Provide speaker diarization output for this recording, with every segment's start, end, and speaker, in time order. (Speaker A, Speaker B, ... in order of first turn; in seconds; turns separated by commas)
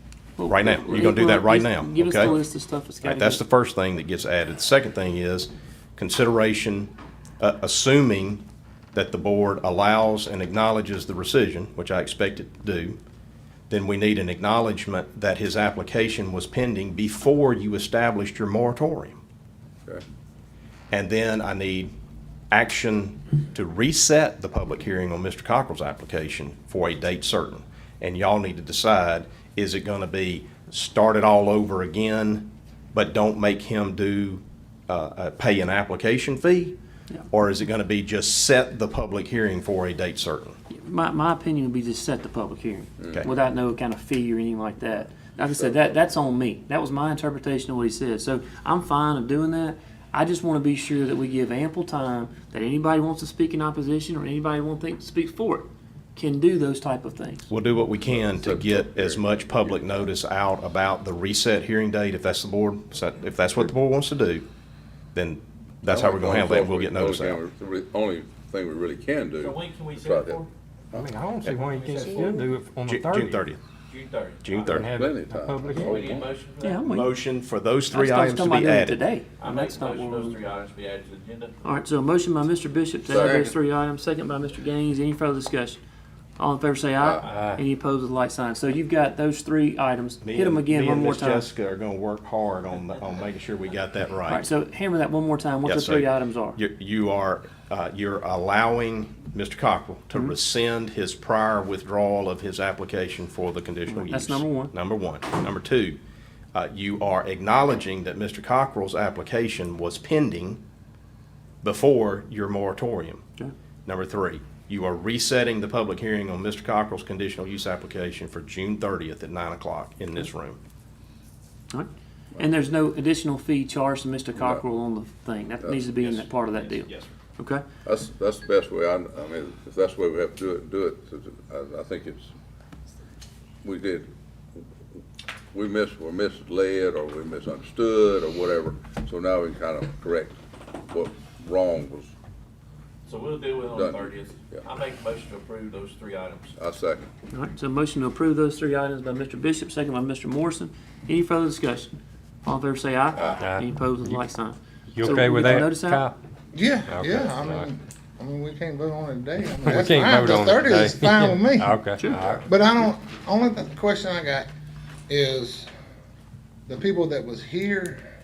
Speaker A: 0.4-3.4, Speaker B: 0.5-2.4, Speaker B: 3.0-8.4, Speaker B: 8.9-13.0, Speaker B: 13.7-19.2, Speaker B: 20.9-21.9, Speaker B: 22.5-36.7, Speaker B: 37.3-40.6, Speaker A: 40.7-57.5, Speaker C: 45.3-46.0, Speaker B: 57.5-64.4, Speaker C: 58.0-59.8, Speaker B: 65.1-67.4, Speaker C: 65.9-70.4, Speaker D: 69.4-70.5, Speaker E: 70.9-73.4, Speaker D: 71.7-72.4, Speaker B: 72.9-73.6, Speaker D: 73.9-74.8, Speaker B: 74.4-74.9, Speaker E: 74.7-76.0, Speaker C: 74.7-76.3, Speaker D: 75.7-76.8, Speaker A: 76.6-77.0, Speaker B: 76.8-79.0, Speaker A: 77.9-80.4, Speaker D: 79.4-81.6, Speaker A: 81.6-85.8, Speaker C: 83.0-83.5, Speaker A: 86.4-91.5, Speaker C: 87.0-87.3, Speaker E: 87.2-87.6, Speaker B: 90.2-94.5, Speaker A: 94.2-96.6, Speaker B: 95.6-106.0, Speaker A: 103.9-104.7, Speaker B: 106.5-110.6, Speaker B: 111.6-113.2, Speaker B: 113.8-120.6, Speaker A: 121.7-127.6, Speaker C: 124.4-124.6, Speaker C: 125.6-126.3, Speaker D: 126.6-127.0, Speaker C: 127.8-132.3, Speaker C: 133.6-134.1, Speaker C: 135.5-140.4, Speaker C: 140.9-142.1, Speaker D: 143.1-146.5, Speaker C: 143.7-144.6, Speaker C: 146.6-147.1, Speaker A: 147.3-151.9, Speaker A: 152.4-156.1, Speaker E: 153.3-154.2, Speaker E: 154.9-156.2, Speaker F: 156.5-161.8, Speaker E: 156.9-157.7, Speaker E: 159.6-162.4, Speaker A: 162.0-162.2, Speaker F: 162.4-164.5, Speaker F: 165.1-165.7, Speaker F: 166.7-168.1